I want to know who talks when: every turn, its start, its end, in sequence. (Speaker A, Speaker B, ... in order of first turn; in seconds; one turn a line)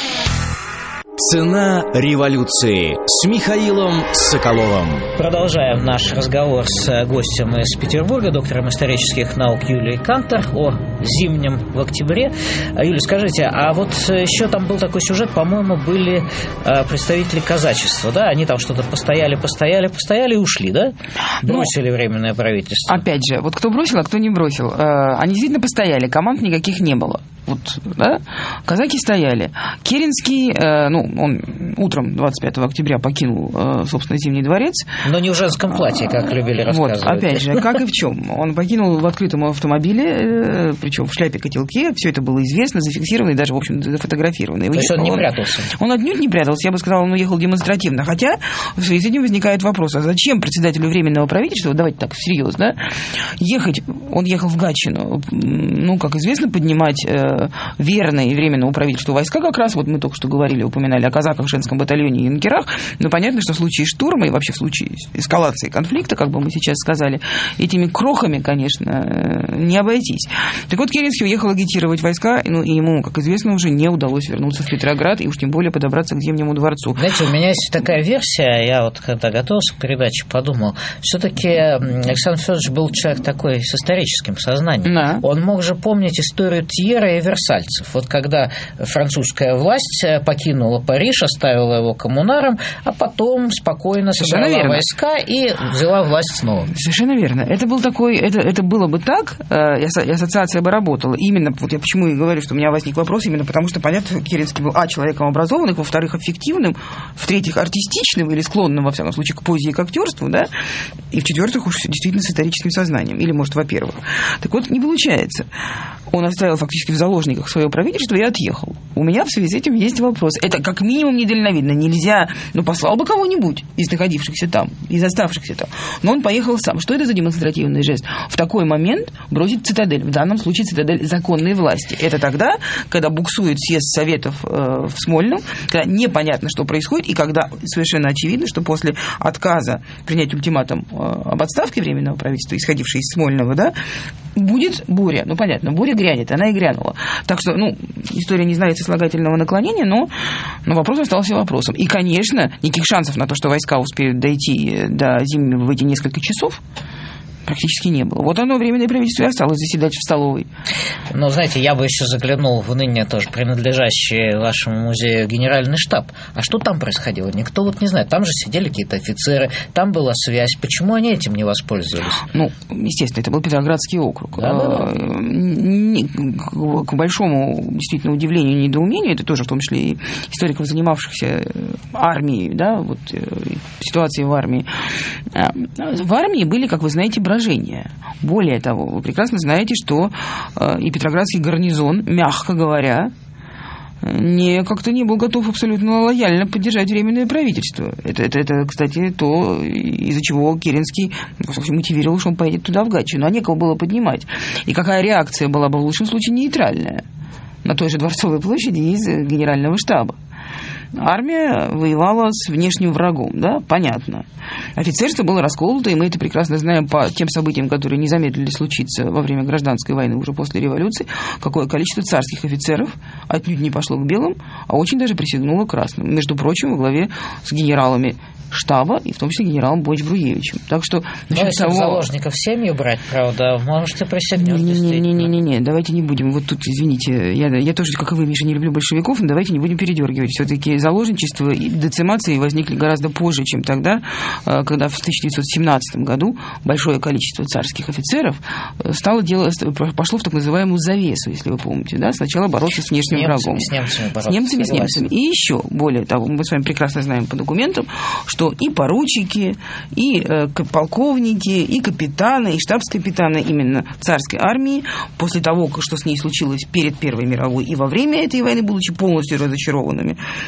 Speaker A: 1.2-5.1
Speaker B: 5.2-23.0
Speaker C: 21.4-21.7
Speaker C: 22.9-35.0
Speaker B: 35.0-37.8
Speaker C: 35.9-52.8
Speaker B: 44.7-45.7
Speaker C: 53.4-77.0
Speaker B: 77.0-96.7
Speaker C: 84.9-85.2
Speaker C: 94.2-94.8
Speaker C: 96.7-110.5
Speaker C: 111.1-115.5
Speaker C: 116.1-143.8
Speaker C: 144.3-150.1
Speaker C: 150.7-156.6
Speaker C: 157.5-160.5
Speaker B: 161.1-172.2
Speaker C: 172.3-184.7
Speaker B: 174.4-174.9
Speaker C: 185.3-193.1
Speaker C: 194.0-207.0
Speaker C: 207.6-210.2
Speaker C: 210.9-214.3
Speaker C: 214.8-232.1
Speaker B: 231.3-235.3
Speaker C: 234.4-253.7
Speaker B: 253.1-255.1
Speaker C: 254.3-270.2